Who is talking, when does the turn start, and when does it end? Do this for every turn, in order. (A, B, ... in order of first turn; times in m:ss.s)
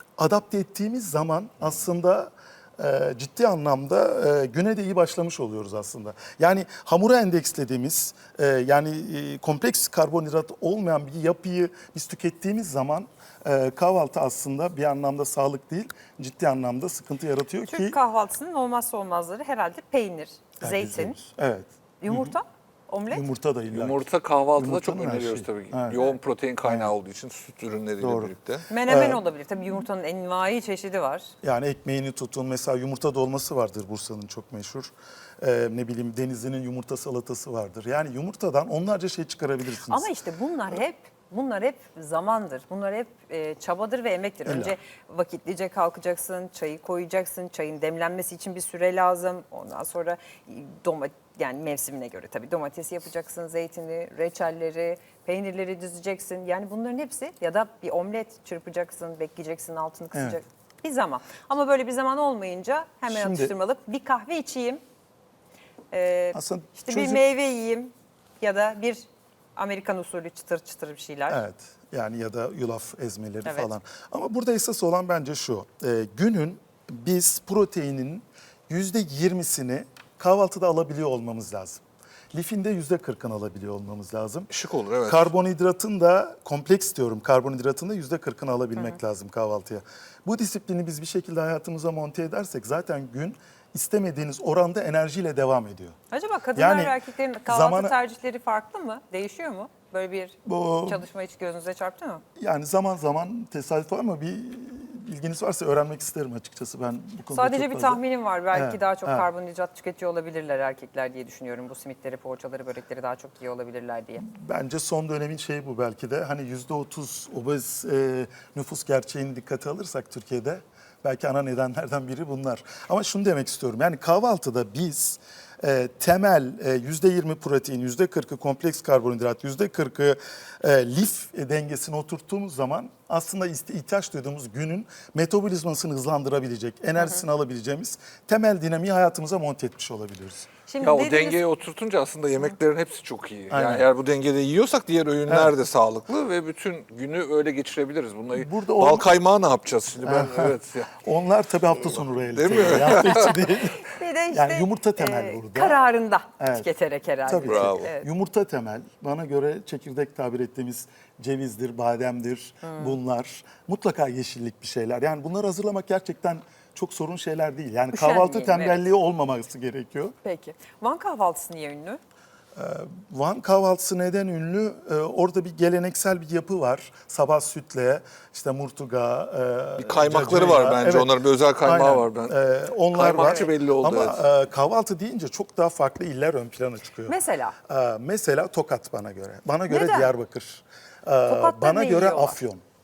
0:00.2-0:18.0 A
0:17.6-0:21.2 B
0:20.6-0:22.3 A
0:22.0-0:23.2 B
0:23.1-0:26.0 A
0:23.7-0:28.6 C
0:26.6-0:26.9 A
0:28.0-0:28.3 A
0:28.7-0:31.3 B
0:28.9-0:29.2 A
0:31.4-0:40.1 A
0:39.8-1:04.8 B
0:44.4-0:44.7 A
1:00.1-1:00.4 A
1:03.1-1:03.5 A
1:05.9-1:11.4 B
1:06.3-1:07.2 A
1:11.3-1:24.5 A
1:24.5-1:25.3 C
1:25.0-1:36.0 A
1:36.1-1:42.2 B
1:36.5-1:37.9 A
1:40.4-1:41.0 A
1:42.4-1:48.0 A
1:47.3-1:54.2 B
1:48.5-1:49.3 A
1:54.2-2:20.5 A
2:17.0-2:17.2 B
2:20.7-2:21.4 B
2:20.8-2:30.9 C
2:23.5-2:23.9 A
2:25.3-2:25.5 A
2:28.3-2:29.1 A
2:30.0-2:35.8 A
2:31.8-2:33.4 C
2:33.1-2:38.1 B
2:36.4-2:36.7 A
2:37.3-2:50.1 A
2:37.4-2:37.9 C
2:42.6-2:43.0 B
2:47.9-2:48.8 B
2:50.2-2:52.0 B
2:52.5-3:07.1 A
2:59.8-3:02.3 C
3:02.9-3:04.2 C
3:03.1-3:03.5 B
3:07.1-3:07.5 B
3:07.7-3:12.6 A
3:09.7-3:10.1 B
3:11.2-3:12.4 B